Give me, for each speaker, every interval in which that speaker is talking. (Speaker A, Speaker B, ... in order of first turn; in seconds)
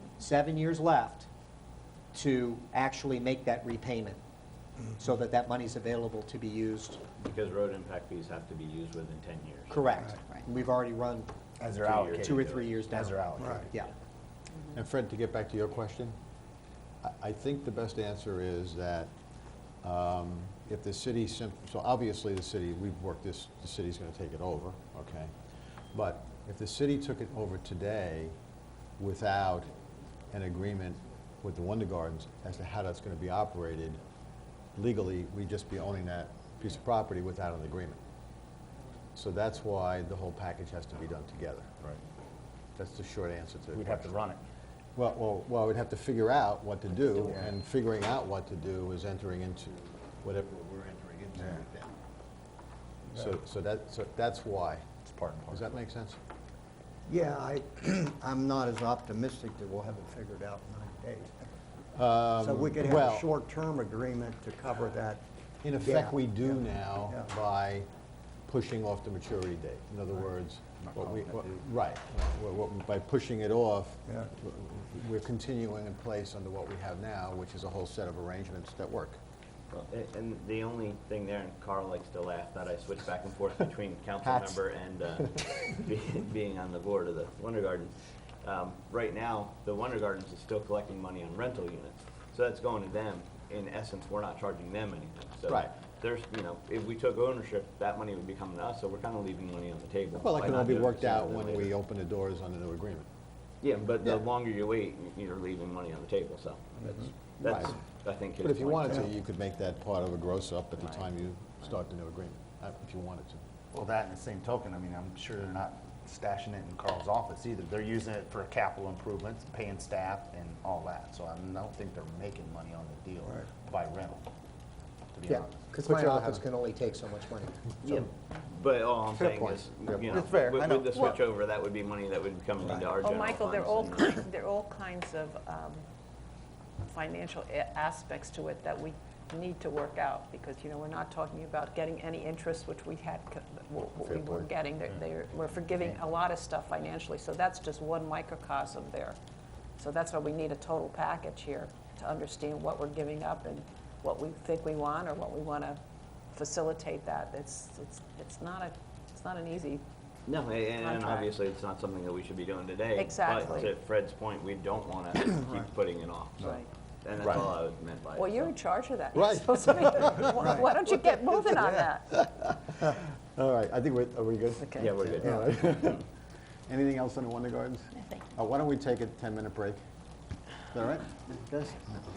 Speaker A: 0.2-1.3, 2.1-4.2, 5.0-7.0, 9.7-11.3, 12.2-13.9, 125.3-127.6
Speaker B: 7.2-10.0, 11.8-12.9, 79.7-101.8, 103.6-109.1, 127.8-134.2, 160.3-168.5, 174.8-175.7
Speaker C: 11.6-13.7, 43.7-44.4, 50.6-51.6, 55.0-55.7, 70.8-71.5, 113.7-124.3, 125.1-125.8, 129.2-131.0
Speaker D: 14.7-16.2, 17.0-19.1, 19.8-25.4, 25.9-28.4, 29.0-29.7, 30.3-34.0, 34.8-38.0, 39.2-41.8, 42.8-44.1, 45.0-51.9, 53.2-54.9, 55.5-56.2, 61.9-63.3, 65.6-67.9, 68.5-79.2, 84.2-84.6, 100.2-103.1, 107.4-107.8, 108.4-113.4, 144.0-144.5, 169.2-176.1, 176.7-179.8, 180.7-181.9
Speaker E: 57.1-61.4, 62.4-65.2, 65.8-66.5, 126.0-126.3
Speaker F: 133.0-135.8, 136.8-149.2, 149.8-155.8, 156.3-159.8, 160.8-161.3, 163.0-163.7, 166.4-166.7, 168.2-172.2, 174.6-174.9